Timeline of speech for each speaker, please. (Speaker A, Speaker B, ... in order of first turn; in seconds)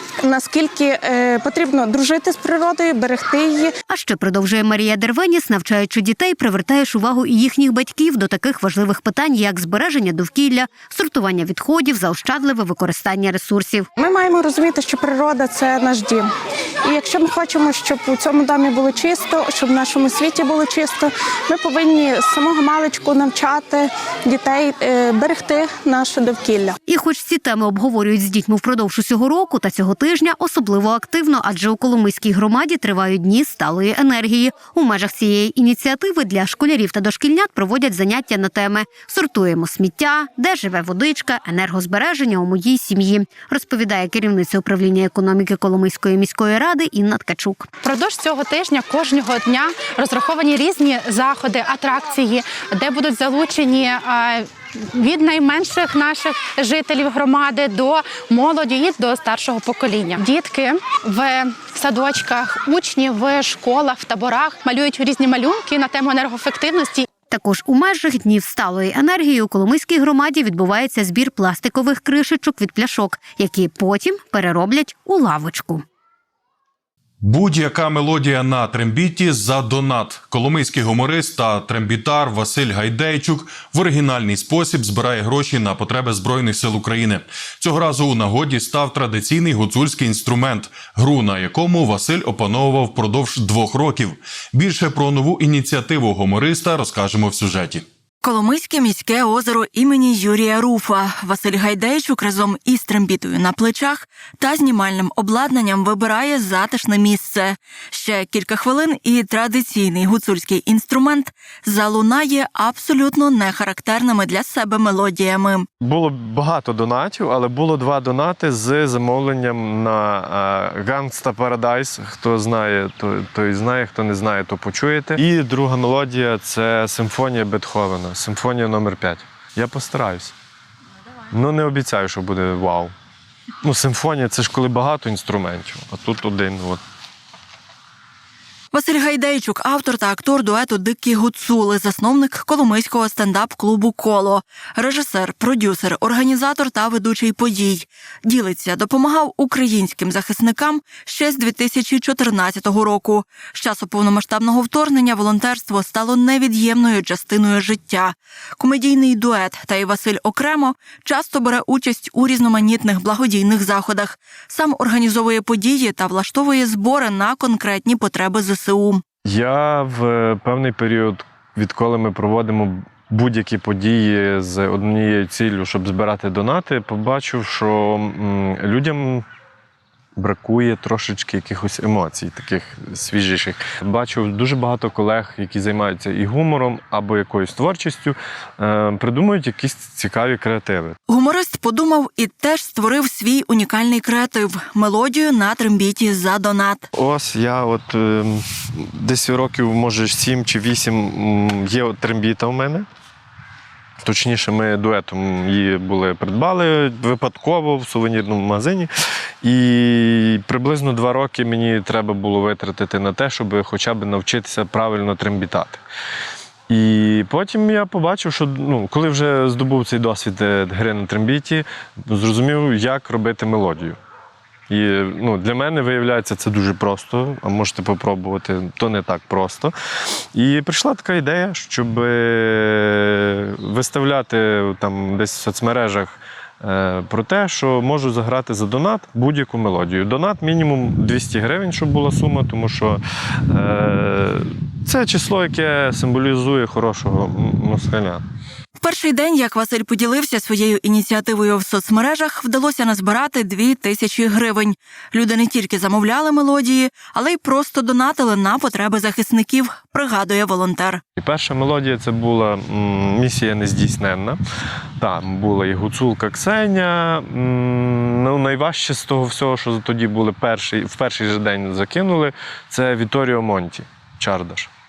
Speaker A: 0.2-3.7, 14.0-16.3, 16.9-26.8
Speaker B: 3.9-13.9, 26.9-47.7, 67.3-75.8
Speaker C: 47.8-67.1
Speaker D: 77.2-97.9
Speaker E: 98.2-115.7, 138.7-169.0, 191.1-196.9, 248.8-261.0
Speaker F: 115.8-130.3, 131.3-132.9, 133.6-136.8, 169.2-179.2, 180.2-191.0, 196.9-202.9, 204.0-208.9, 209.4-215.8, 216.7-224.0, 224.7-229.7, 230.3-248.2, 261.2-264.4, 265.0-274.7